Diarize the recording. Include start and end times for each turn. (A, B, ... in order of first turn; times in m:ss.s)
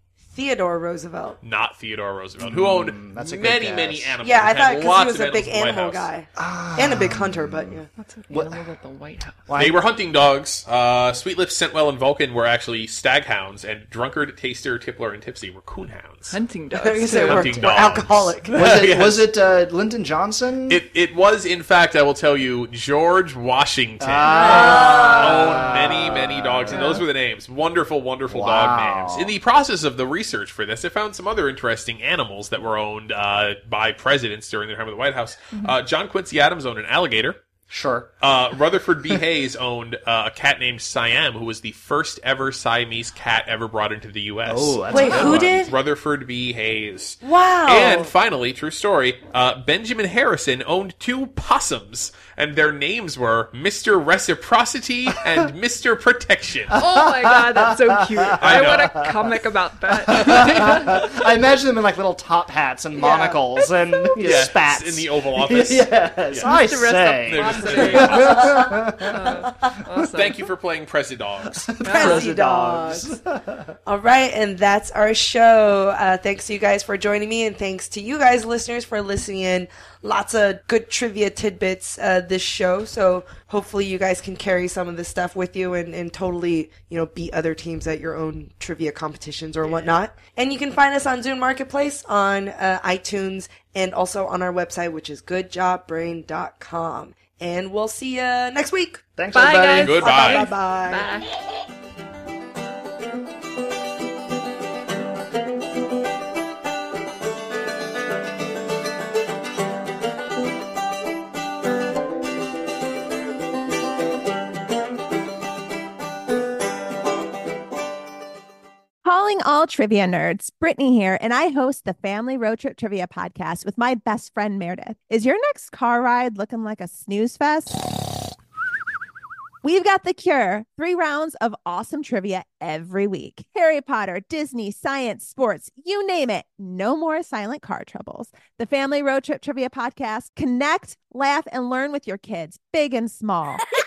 0:00.3-0:01.4 A
0:01.4-0:06.1 B
0:02.4-0:04.2 C
0:04.2-0:07.9 A
0:06.4-0:08.6 C
0:08.0-0:09.4 D
0:09.5-0:09.8 C
0:09.5-0:16.4 B
0:16.3-0:17.6 D
0:16.7-0:18.6 A
0:17.2-0:19.3 B
0:18.5-0:20.8 C
0:20.7-0:37.4 B
0:24.0-0:27.0 C
0:24.2-0:25.2 D
0:24.4-0:25.6 A
0:26.7-0:27.0 D
0:28.3-0:29.3 C
0:37.7-0:38.1 C
0:38.2-0:56.8 B
0:44.4-0:45.6 C
0:44.9-0:45.7 A
0:47.2-0:48.1 A
0:56.7-1:09.5 C
0:56.7-1:01.1 D
0:58.4-0:59.0 B
1:00.3-1:00.8 B
1:03.0-1:03.4 A
1:04.2-1:06.6 B
1:06.4-1:10.4 D
1:07.2-1:08.7 B
1:09.9-1:11.8 B
1:11.5-1:13.7 C
1:11.8-1:12.2 D
1:11.9-1:13.2 A
1:13.8-1:39.0 A
1:39.2-1:40.0 C
1:39.3-1:41.3 D
1:39.8-1:40.5 B
1:39.9-1:41.1 A
1:59.0-2:07.8 E
2:09.6-2:23.6 E